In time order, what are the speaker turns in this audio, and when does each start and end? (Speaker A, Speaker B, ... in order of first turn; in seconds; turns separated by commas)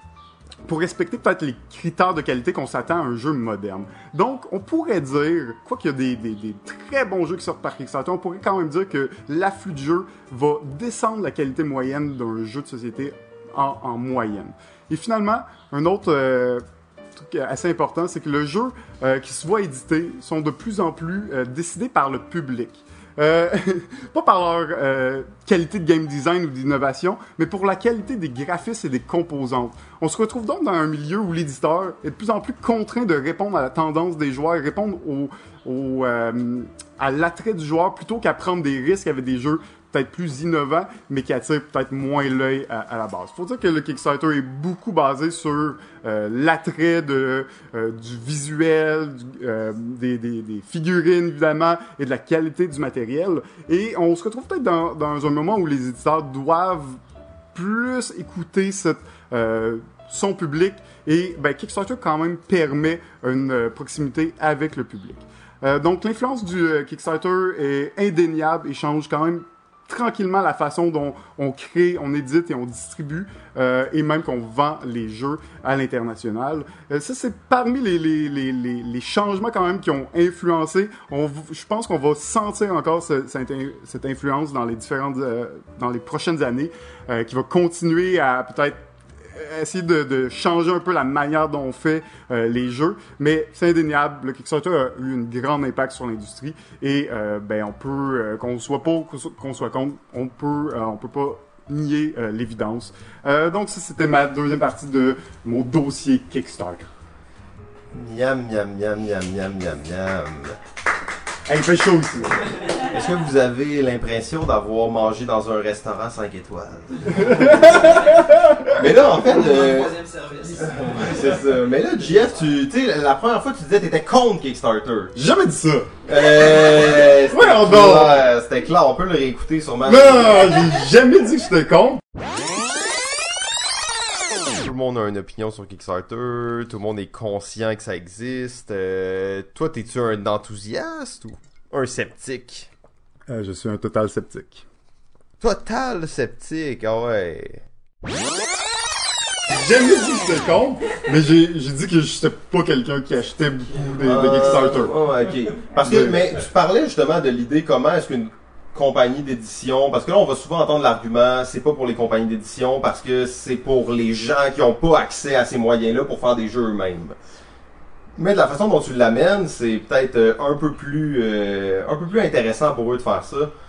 Speaker A: 0.7-16.6, Speaker A: 17.2-57.0, Speaker A: 57.5-106.9, Speaker B: 107.9-110.6, Speaker A: 111.5-112.4, Speaker B: 112.8-118.2, Speaker A: 117.1-118.7, Speaker B: 118.7-119.9, Speaker C: 119.0-121.8, Speaker B: 120.6-125.1, Speaker A: 125.2-125.9, Speaker B: 126.1-130.5, Speaker A: 127.3-128.2, Speaker A: 129.9-132.0, Speaker B: 134.5-142.7, Speaker A: 143.3-144.7, Speaker B: 145.4-147.7, Speaker A: 149.5-154.9, Speaker B: 154.0-167.2, Speaker A: 155.8-156.3, Speaker B: 168.2-173.5